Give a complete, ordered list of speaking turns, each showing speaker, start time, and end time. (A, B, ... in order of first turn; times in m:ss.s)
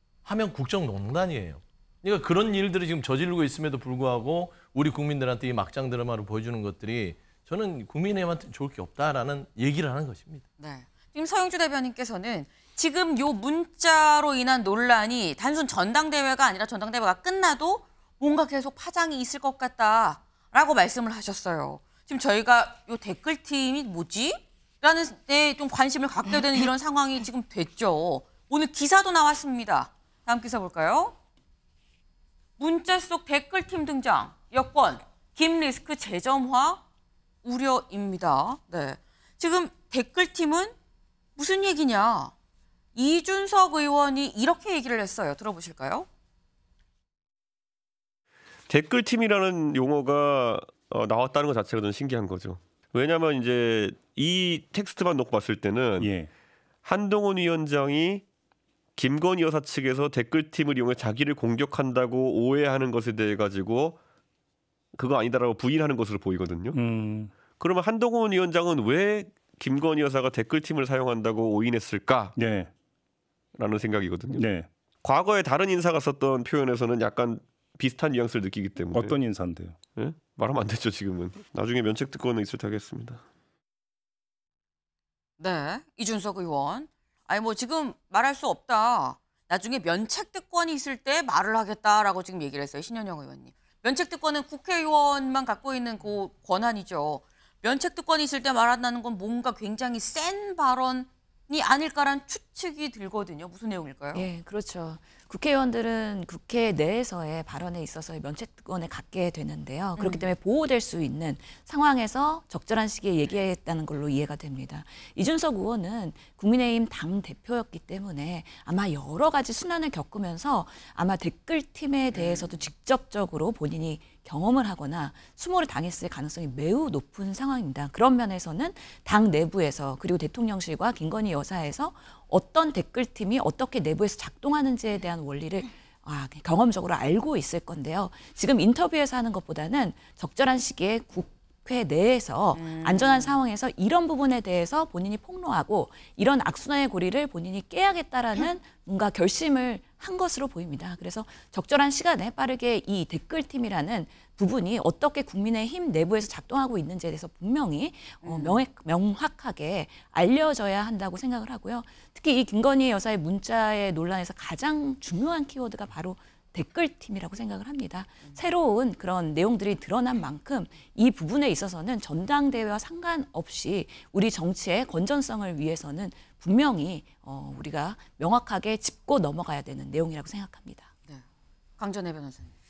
0:00.2-0:10.4 A
0:10.6-0:31.2 B
0:32.6-0:36.8 B
0:37.4-0:40.8 B
0:41.4-0:42.3 B
0:43.0-0:46.1 B
0:48.7-0:56.1 C
0:56.0-0:56.3 D
0:56.8-0:58.2 C
0:59.0-1:04.0 C
1:05.0-1:06.8 C
1:06.7-1:07.4 D
1:07.4-1:12.4 C
1:12.4-1:12.7 D
1:13.6-1:14.5 C
1:14.3-1:14.7 D
1:15.0-1:19.2 C
1:18.9-1:19.8 D
1:20.0-1:23.2 C
1:25.4-1:44.3 B
1:44.1-3:00.9 E
1:50.0-1:50.3 B
2:02.1-2:02.7 B
2:22.5-2:23.4 B
2:38.2-2:38.6 B
3:01.8-3:02.5 B